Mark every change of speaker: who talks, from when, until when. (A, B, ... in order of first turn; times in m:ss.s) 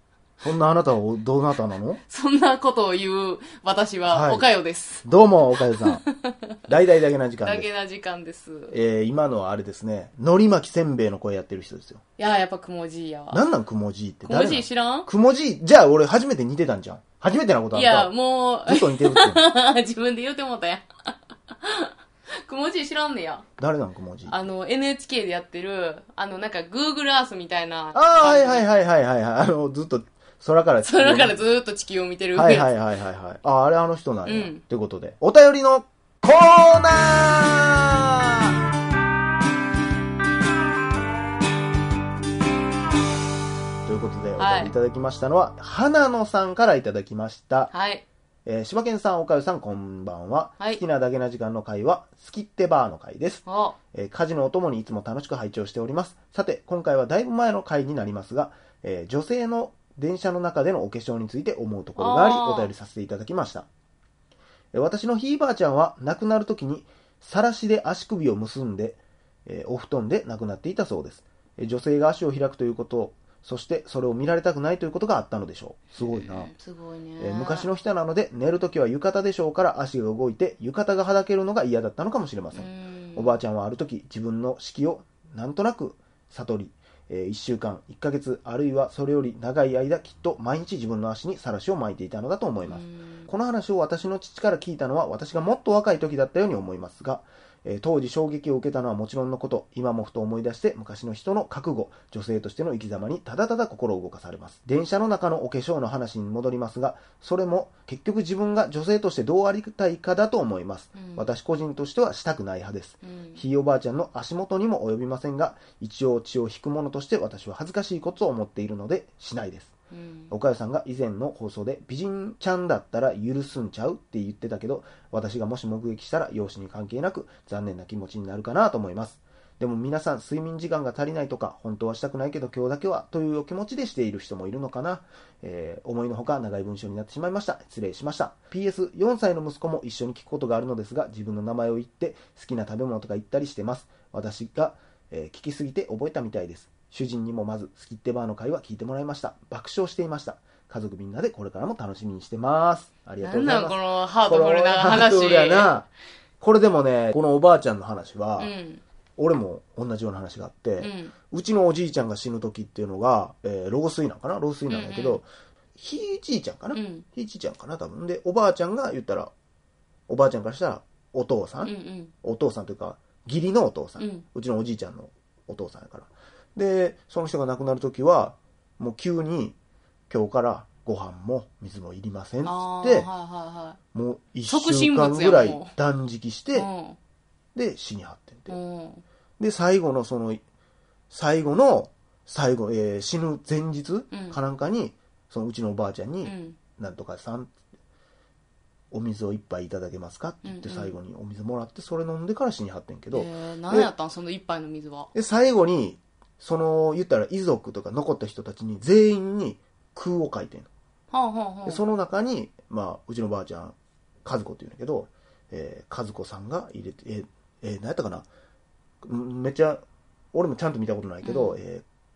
0:00.4-0:02.0 A
0:02.1-0:05.0 B
0:04.1-0:04.5 A
0:05.0-0:06.0 A
0:05.8-0:06.4 B
0:06.7-0:07.7 A
0:07.4-0:08.7 B
0:08.7-0:12.0 A
0:12.2-0:13.4 B
0:13.3-0:18.1 A
0:14.2-0:15.1 B
0:17.7-0:21.9 B
0:18.7-0:19.4 A
0:22.4-0:23.4 B
0:23.6-0:24.4 A
0:24.3-0:28.7 B
0:27.9-0:31.4 A
0:30.8-0:32.7 B
0:32.4-0:38.6 A
0:34.3-0:34.6 B
0:43.8-0:47.7 A
0:44.4-0:44.7 B
0:47.7-0:48.0 B
0:48.4-1:03.7 A
0:53.4-0:53.8 B
1:02.0-1:02.7 B
1:04.7-1:16.5 A
1:16.1-1:17.7 B
1:17.2-1:59.7 A
1:22.5-1:23.4 B
1:32.7-1:33.3 B
1:51.0-1:51.3 B
1:53.0-1:53.4 B
1:59.9-2:00.3 B
2:00.3-2:35.9 A
2:33.2-2:35.8 B
2:36.4-2:38.5 A
2:38.4-2:38.8 B
2:39.2-2:49.3 A
2:40.8-2:41.1 B
2:44.7-2:45.2 B
2:46.7-2:47.0 B
2:50.1-2:59.6 A
2:51.6-2:52.1 B
2:54.0-2:54.2 B
3:00.1-3:03.1 A
3:02.4-3:03.8 B
3:03.9-3:06.7 A
3:04.5-3:05.7 B
3:06.6-3:07.0 B
3:07.6-3:08.6 A
3:08.5-3:09.0 B
3:09.4-3:10.4 A
3:11.1-3:17.5 A
3:14.1-3:14.4 B
3:16.2-3:16.6 B
3:18.9-3:23.9 A
3:20.4-3:20.9 B
3:23.1-3:25.1 B
3:25.1-3:30.7 A
3:31.1-3:31.8 B
3:31.7-3:38.3 A
3:39.0-3:39.8 A
3:40.3-3:41.8 A
3:41.2-3:41.6 B